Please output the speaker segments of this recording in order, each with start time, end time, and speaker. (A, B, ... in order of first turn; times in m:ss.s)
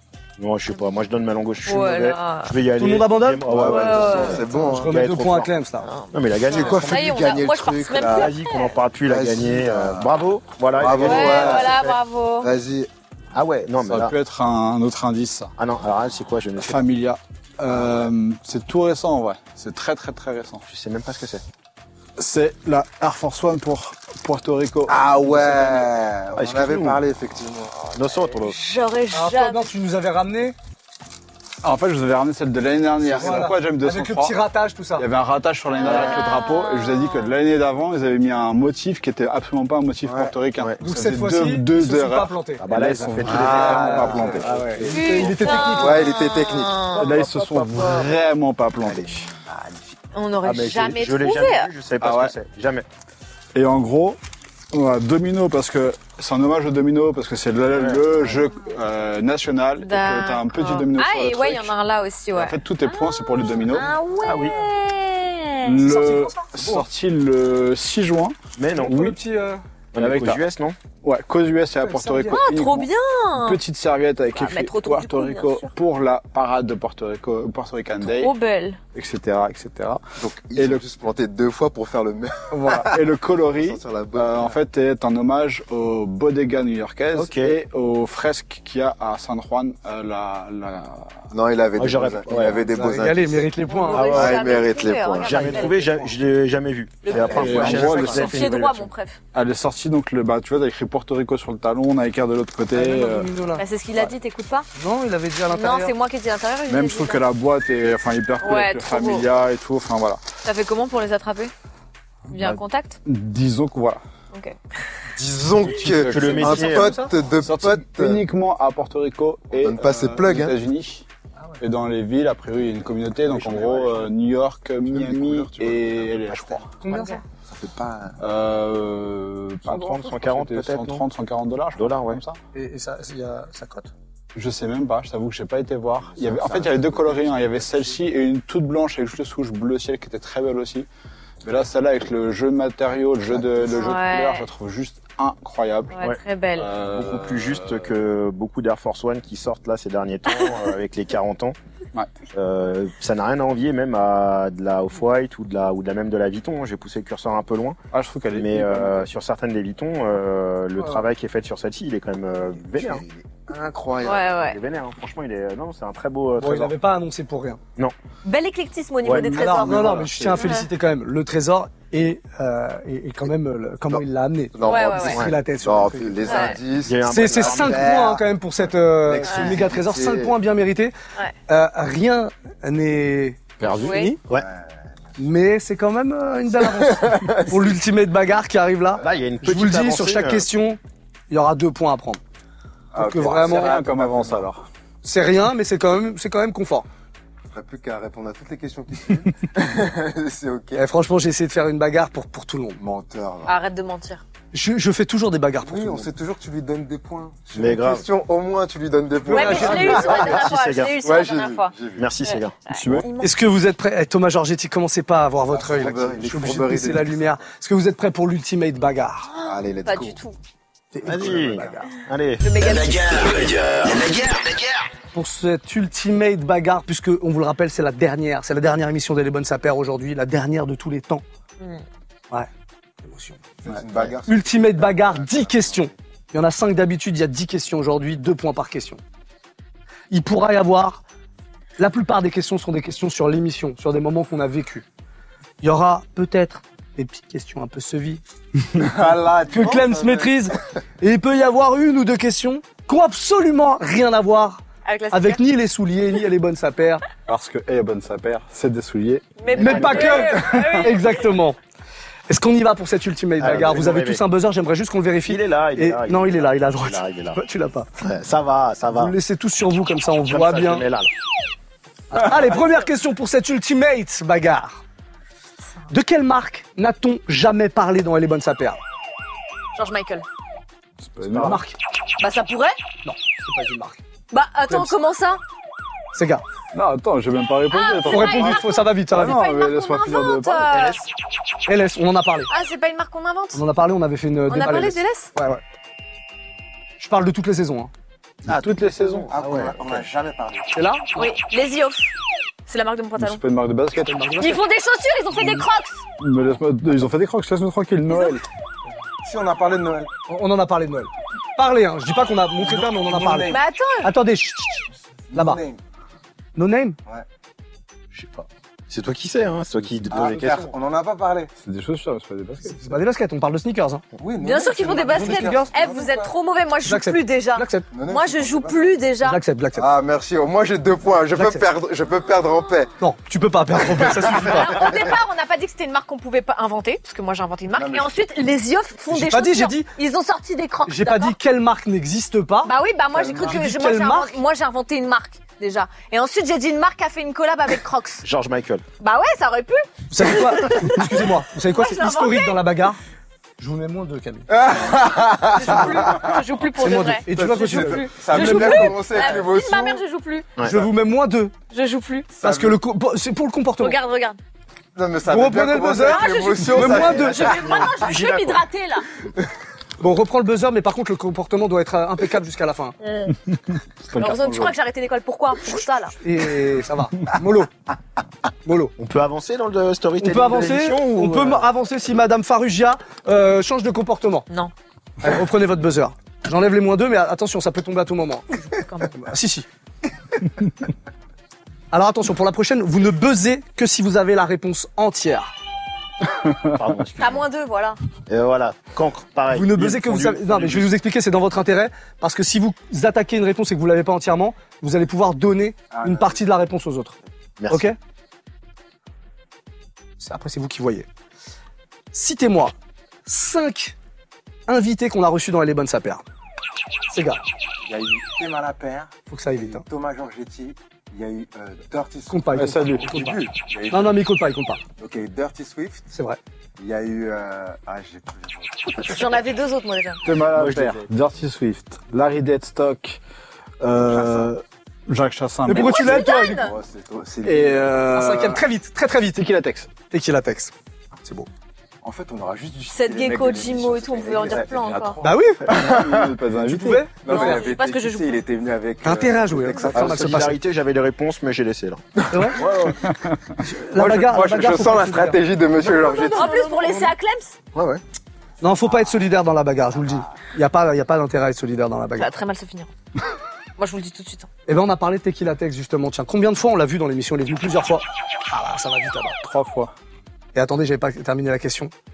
0:00.4-0:05.5 A
0:01.7-0:02.5 B
0:02.8-0:05.9 C
0:03.5-0:04.9 D
0:03.7-0:04.6 B
0:05.9-0:08.7 B
0:06.0-0:07.2 A
0:06.5-0:08.3 D
0:08.0-0:12.0 A
0:09.0-0:10.1 D
0:10.8-0:11.8 D
0:11.0-0:12.5 B
0:12.4-0:12.9 D
0:13.3-0:14.1 A
0:13.9-0:15.5 E
0:15.6-0:16.8 A
0:16.6-0:20.6 E
0:17.7-0:18.1 A
0:20.7-0:21.4 A
0:22.2-0:25.9 E
0:24.9-0:28.0 D
0:26.4-0:27.0 A
0:28.0-0:28.6 A
0:28.5-0:29.7 B
0:29.1-0:30.6 C
0:31.6-0:34.4 E
0:33.1-0:33.5 D
0:33.1-0:35.1 C
0:35.0-0:45.0 E
0:35.8-0:37.3 B
0:40.0-0:40.4 D
0:40.8-0:42.6 C
0:42.6-0:45.2 A
0:43.2-0:46.1 C
0:43.3-0:45.0 D
0:44.9-0:47.1 B
0:45.6-0:48.1 D
0:46.9-0:49.3 E
0:47.2-0:47.8 C
0:48.8-0:50.0 D
0:50.1-0:51.7 B
0:50.4-0:52.8 A
0:52.0-0:52.3 E
0:53.5-0:54.2 E
0:54.7-1:01.7 E
0:57.7-0:58.3 A
0:59.8-1:05.8 B
1:02.3-1:03.9 E
1:04.2-1:04.6 A
1:05.6-1:08.4 E
1:05.8-1:06.9 C
1:08.6-1:09.1 A
1:08.8-1:09.6 C
1:09.9-1:10.8 A
1:10.0-1:10.4 E
1:11.0-1:18.3 E
1:11.8-1:12.4 C
1:12.3-1:13.6 B
1:14.3-1:15.7 B
1:18.0-1:18.8 B
1:18.9-1:20.0 E
1:20.2-1:24.6 D
1:20.6-1:20.8 E
1:22.5-1:31.3 E
1:27.1-1:27.6 A
1:31.3-1:33.5 D
1:31.8-1:32.6 A
1:32.7-1:34.4 C
1:33.7-1:35.8 B
1:33.9-1:34.4 A
1:34.1-1:35.7 D
1:35.2-1:38.9 A
1:35.5-1:36.0 C
1:37.0-1:39.2 B
1:37.1-1:38.2 D
1:37.3-1:38.4 E
1:39.3-1:43.3 E
1:42.7-1:43.6 C
1:43.6-1:44.7 B
1:44.8-1:45.9 C
1:45.5-1:47.2 B
1:46.7-1:50.2 E
1:48.4-1:49.2 B
1:50.4-1:51.5 B
1:52.3-1:53.0 B
1:52.3-1:54.0 E
1:55.2-1:58.2 D
1:55.8-1:56.8 E
1:55.8-1:57.0 A
1:56.6-1:57.1 C
1:57.4-2:01.1 E
1:59.6-2:00.6 D
2:01.6-2:06.7 E
2:03.2-2:04.1 D
2:04.8-2:06.6 D
2:06.8-2:07.2 C
2:06.9-2:07.2 B
2:07.4-2:08.2 D
2:08.2-2:12.4 E
2:09.6-2:11.0 A
2:11.8-2:12.2 A
2:12.5-2:13.9 C
2:14.4-2:20.9 E
2:16.1-2:17.9 D
2:21.4-2:26.0 E
2:23.3-2:24.0 D
2:23.7-2:24.5 B
2:25.9-2:26.7 B
2:26.6-2:28.0 E
2:26.8-2:31.6 A
2:32.3-2:37.8 A
2:37.9-2:39.1 E
2:38.3-2:43.0 A
2:42.6-2:44.3 D
2:44.0-2:44.6 B
2:44.4-2:46.8 A
2:46.4-2:47.6 C
2:48.2-2:50.7 B
2:49.0-2:49.6 A
2:49.2-2:50.6 E
2:49.2-2:56.6 C
2:54.5-2:58.3 D
2:54.6-2:55.2 B
2:56.2-2:56.6 B
2:56.8-2:58.1 A
2:57.1-3:01.0 C
2:59.0-3:00.4 D
2:59.2-2:59.6 B
3:01.5-3:04.2 C
3:03.6-3:03.9 E
3:03.8-3:04.2 B
3:04.3-3:04.8 D
3:05.2-3:12.2 C
3:06.6-3:07.7 D
3:09.0-3:10.5 A
3:13.0-3:14.5 D
3:13.0-3:13.8 C
3:13.0-3:14.7 E
3:15.0-3:16.9 C
3:17.5-3:20.8 D
3:20.8-3:22.8 C
3:22.8-3:23.6 D
3:23.4-3:24.2 B
3:24.5-3:26.1 C
3:25.6-3:32.1 D
3:27.5-3:28.1 A
3:29.2-3:30.3 C
3:29.3-3:31.7 B
3:30.0-3:31.0 A
3:32.0-3:32.6 A
3:32.2-3:33.4 B
3:32.7-3:33.1 E
3:33.2-3:39.3 C
3:35.5-3:37.4 D
3:39.3-3:40.4 B
3:39.4-3:40.2 D
3:40.9-3:41.9 C
3:41.0-3:44.8 A
3:41.2-3:41.8 D
3:42.4-3:43.6 B
3:45.1-3:51.2 C
3:53.0-3:53.4 C
3:53.6-3:56.0 D
3:53.7-3:54.1 E
3:54.3-3:59.0 C
4:00.1-4:01.0 C
4:01.8-4:04.9 C
4:05.6-4:08.2 C
4:08.8-4:10.4 D
4:09.5-4:17.0 C
4:14.8-4:15.4 B
4:17.3-4:19.4 E
4:19.4-4:21.2 B
4:19.5-4:20.4 A
4:19.5-4:21.6 C
4:22.3-4:27.9 C
4:23.4-4:24.2 A
4:25.3-4:27.4 A
4:28.0-4:29.2 A
4:28.9-4:30.9 C
4:30.3-4:31.1 A
4:32.1-4:34.8 C
4:35.9-4:38.8 C
4:39.8-4:40.2 B
4:41.0-4:41.6 E
4:41.3-4:41.6 A
4:41.3-4:41.8 C
4:42.2-4:42.8 B
4:43.0-4:44.0 C
4:44.3-4:45.4 B
4:44.7-4:44.9 C
4:46.1-4:46.4 C
4:46.7-4:50.7 E
4:47.7-4:51.0 B
4:48.1-4:49.4 C
4:50.7-4:51.1 A
4:51.7-4:52.5 C
4:52.5-4:53.6 B
4:53.5-4:55.6 C
4:54.5-4:55.3 B
4:57.0-4:57.9 C
4:58.5-4:59.3 E
4:58.5-5:00.0 A
4:59.3-5:01.0 D
5:00.7-5:01.3 C
5:01.2-5:02.1 B
5:02.7-5:03.4 B
5:03.2-5:04.3 E
5:04.0-5:04.6 C
5:04.4-5:06.0 B
5:06.2-5:08.4 E
5:09.2-5:10.1 D
5:10.3-5:15.6 C
5:12.6-5:13.6 D
5:13.5-5:14.1 B
5:15.3-5:15.8 D
5:16.6-5:17.0 C
5:18.1-5:20.7 A
5:20.1-5:21.5 D
5:20.3-5:20.7 C
5:21.6-5:22.9 E
5:22.6-5:24.0 C
5:24.2-5:26.3 D
5:24.4-5:29.4 B
5:25.1-5:25.7 C
5:26.8-5:27.9 C
5:27.9-5:28.9 D
5:29.2-5:29.9 C
5:29.7-5:32.9 D
5:31.3-5:31.7 C
5:33.0-5:34.8 C
5:34.3-5:41.4 B
5:37.7-5:38.1 D
5:39.1-5:39.9 C
5:40.9-5:44.4 C
5:42.6-5:48.2 B
5:48.2-5:48.8 A
5:49.0-5:51.1 B
5:50.1-5:53.0 C
5:51.7-5:52.6 B
5:53.6-5:54.5 C
5:54.5-5:56.3 D
5:55.5-6:00.5 B
5:55.7-5:56.1 C
5:56.8-5:59.3 C
5:57.3-6:00.0 D
6:00.6-6:00.8 A
6:00.6-6:01.5 C
6:01.7-6:02.3 B
6:02.3-6:02.8 D
6:02.4-6:04.0 C
6:03.8-6:04.4 B
6:05.0-6:07.8 D
6:05.3-6:07.6 C
6:05.9-6:09.1 B
6:06.9-6:08.6 A
6:10.0-6:13.0 C
6:13.0-6:13.4 B
6:13.5-6:14.8 E
6:14.1-6:16.2 B
6:16.2-6:17.7 C
6:18.6-6:19.0 C
6:19.0-6:21.7 A
6:20.2-6:24.5 C
6:25.2-6:29.7 C
6:28.6-6:29.2 B
6:31.9-6:35.5 C
6:36.6-6:37.5 A
6:37.2-6:38.0 B
6:38.3-6:40.9 A
6:39.5-6:47.2 C
6:45.9-6:46.6 D
6:47.6-6:47.9 A
6:47.7-6:48.0 C
6:50.2-6:51.1 C
6:52.1-6:52.7 C
6:53.3-6:54.0 C
6:54.7-6:56.2 C
6:57.1-6:57.4 C
6:57.8-7:04.2 D
6:59.3-6:59.9 C
7:02.3-7:04.8 C
7:02.6-7:03.1 E
7:05.0-7:06.1 D
7:06.1-7:06.4 C
7:06.8-7:09.2 D
7:08.9-7:10.2 B
7:10.2-7:13.2 E
7:10.5-7:11.1 A
7:13.8-7:16.3 E
7:14.0-7:14.5 D
7:15.7-7:16.6 C
7:15.7-7:16.8 B
7:16.4-7:18.1 D
7:17.4-7:18.6 E
7:17.9-7:19.4 C
7:19.3-7:19.9 E
7:20.1-7:21.5 C
7:22.0-7:26.4 D
7:22.9-7:25.2 B
7:24.8-7:27.1 E
7:25.2-7:25.9 C
7:26.6-7:27.7 C
7:27.1-7:30.5 D
7:27.3-7:28.4 B
7:29.0-7:30.6 C
7:29.9-7:33.0 A
7:32.3-7:32.6 C
7:32.4-7:33.0 D
7:33.1-7:33.4 E
7:33.6-7:35.4 C
7:33.9-7:36.5 D
7:36.0-7:37.1 C
7:36.0-7:37.6 B
7:37.8-7:38.0 A
7:38.6-7:42.3 C
7:42.2-7:42.9 B
7:43.8-7:44.5 B
7:44.7-7:49.4 C
7:49.4-7:49.9 E
7:50.5-7:51.9 C